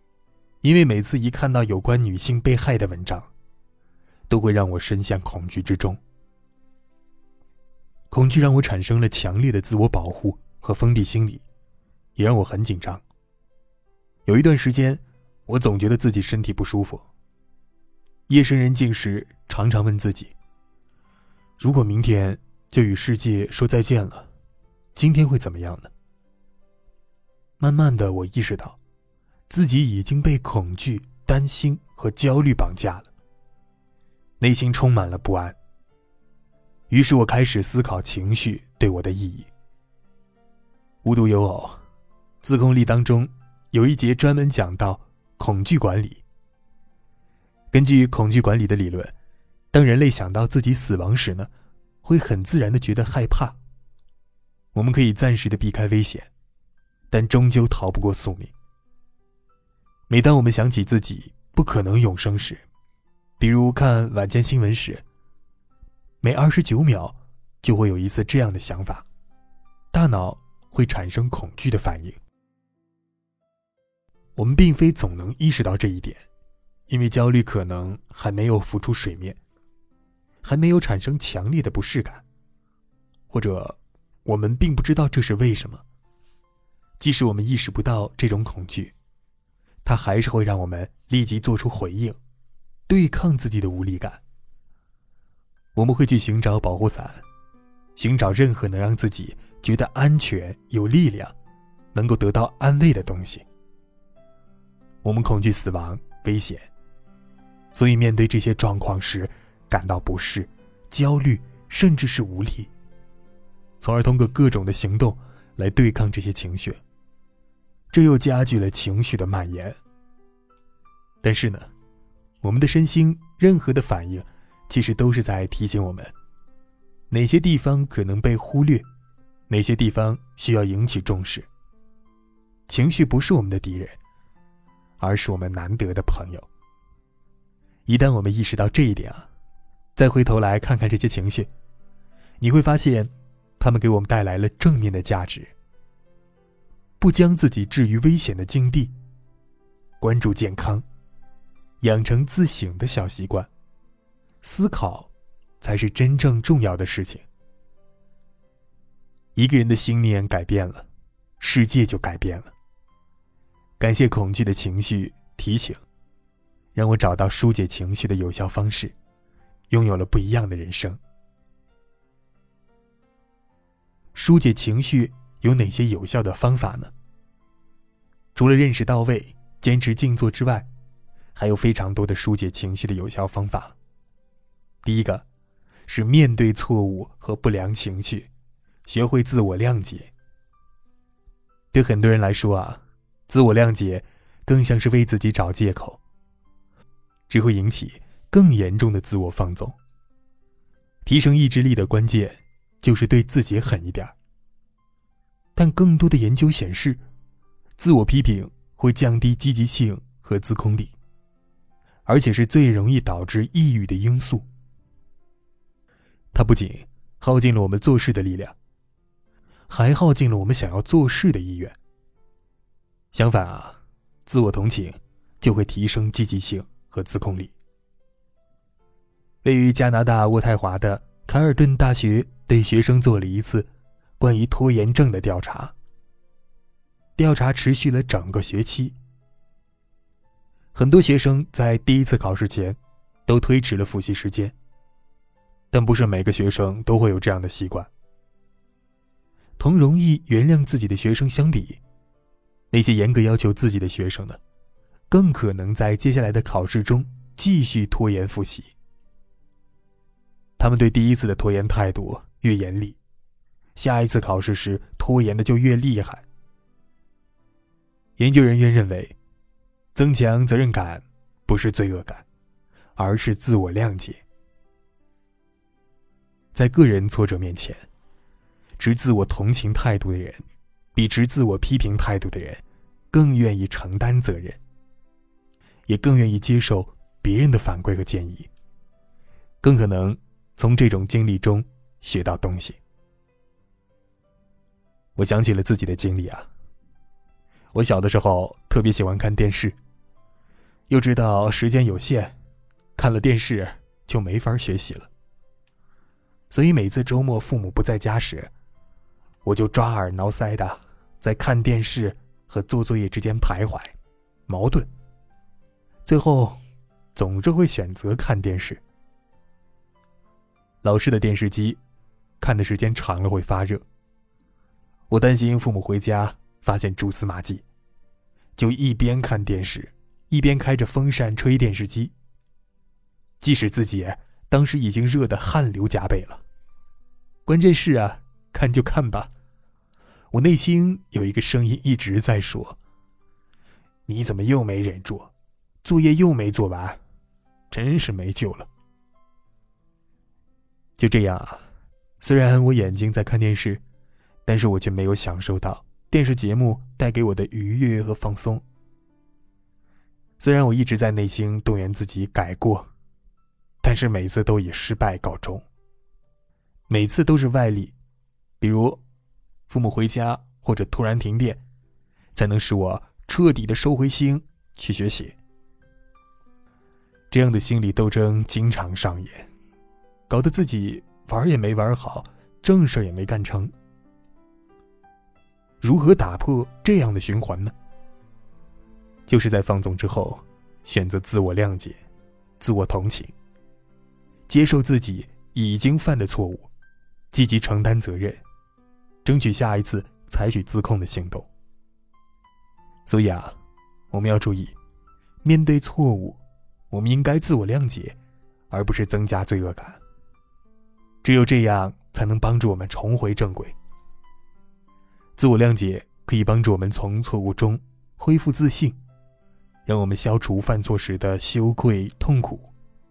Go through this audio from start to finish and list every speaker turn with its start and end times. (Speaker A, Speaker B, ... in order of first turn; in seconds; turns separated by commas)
Speaker A: 0.6-3.3, Speaker A: 4.3-6.0, Speaker A: 8.1-11.4, Speaker A: 12.2-13.0, Speaker A: 14.3-17.1, Speaker A: 18.3-20.3, Speaker A: 21.6-24.3, Speaker A: 24.9-25.9, Speaker A: 27.6-28.8, Speaker A: 29.5-33.1, Speaker A: 34.4-35.6, Speaker A: 36.9-39.5, Speaker A: 41.0-41.8, Speaker A: 42.4-46.2, Speaker A: 47.7-49.1, Speaker A: 49.7-51.5, Speaker A: 52.0-53.6, Speaker A: 54.7-56.3, Speaker A: 57.1-58.5, Speaker A: 60.1-62.6, Speaker A: 63.4-65.0, Speaker A: 66.2-69.0, Speaker A: 69.9-72.2, Speaker A: 74.4-76.2, Speaker A: 76.9-79.4, Speaker A: 80.4-82.2, Speaker A: 83.3-85.8, Speaker A: 87.0-89.0, Speaker A: 89.8-92.2, Speaker A: 92.9-94.2, Speaker A: 95.8-97.2, Speaker A: 98.0-101.3, Speaker A: 101.9-103.5, Speaker A: 105.0-106.7, Speaker A: 107.7-112.7, Speaker A: 113.8-116.8, Speaker A: 117.9-119.8, Speaker A: 121.2-121.7, Speaker A: 122.4-126.1, Speaker A: 127.1-128.9, Speaker A: 129.5-131.5, Speaker A: 132.7-134.0, Speaker A: 135.0-136.5, Speaker A: 137.9-139.3, Speaker A: 140.0-141.5, Speaker A: 142.4-145.5, Speaker A: 147.0-148.9, Speaker A: 150.0-150.8, Speaker A: 151.8-153.5, Speaker A: 154.4-157.2, Speaker A: 159.3-160.9, Speaker A: 161.4-162.5, Speaker A: 163.8-165.8, Speaker A: 166.8-168.9, Speaker A: 169.7-171.0, Speaker A: 174.2-176.9, Speaker A: 178.3-180.7, Speaker A: 181.3-183.8, Speaker A: 184.8-185.2, Speaker A: 185.9-188.3, Speaker A: 188.9-190.1, Speaker A: 191.7-196.0, Speaker A: 197.3-199.8, Speaker A: 201.1-204.1, Speaker A: 205.6-207.0, Speaker A: 207.8-210.9, Speaker A: 212.1-214.5, Speaker A: 216.3-218.6, Speaker A: 219.7-221.8, Speaker A: 223.1-227.5, Speaker A: 229.4-233.7, Speaker A: 234.2-235.7, Speaker A: 237.2-239.0, Speaker A: 240.7-244.6, Speaker A: 245.7-247.9, Speaker A: 249.6-251.8, Speaker A: 252.7-254.4, Speaker A: 255.1-258.7, Speaker A: 260.6-263.0, Speaker A: 263.8-266.2, Speaker A: 268.2-269.1, Speaker A: 269.9-272.2, Speaker A: 273.0-274.2, Speaker A: 276.5-277.9, Speaker A: 278.8-280.4, Speaker A: 280.9-284.6, Speaker A: 285.9-288.5, Speaker A: 289.6-292.8, Speaker A: 295.2-296.5, Speaker A: 297.7-299.8, Speaker A: 300.9-302.3, Speaker A: 303.0-305.1, Speaker A: 306.5-308.5, Speaker A: 309.4-313.9, Speaker A: 314.5-314.9, Speaker A: 316.1-316.6, Speaker A: 317.1-318.8, Speaker A: 320.8-321.8, Speaker A: 322.4-323.8, Speaker A: 325.1-327.6, Speaker A: 328.6-332.1, Speaker A: 333.4-336.4, Speaker A: 337.5-339.3, Speaker A: 340.3-342.8, Speaker A: 344.1-345.3, Speaker A: 345.8-347.0, Speaker A: 347.7-348.7, Speaker A: 351.0-351.6, Speaker A: 352.2-353.8, Speaker A: 354.5-358.6, Speaker A: 360.4-362.9, Speaker A: 363.8-365.6, Speaker A: 366.9-367.9, Speaker A: 368.6-369.0, Speaker A: 369.7-371.6, Speaker A: 372.4-375.4, Speaker A: 377.3-379.5, Speaker A: 380.3-383.7, Speaker A: 385.8-387.7, Speaker A: 389.3-392.0, Speaker A: 392.6-393.3, Speaker A: 394.5-396.7, Speaker A: 397.3-398.4, Speaker A: 399.2-401.5, Speaker A: 403.1-403.6, Speaker A: 404.1-404.8, Speaker A: 405.4-408.2, Speaker A: 408.7-410.0, Speaker A: 411.2-413.8, Speaker A: 415.4-419.0, Speaker A: 419.9-422.7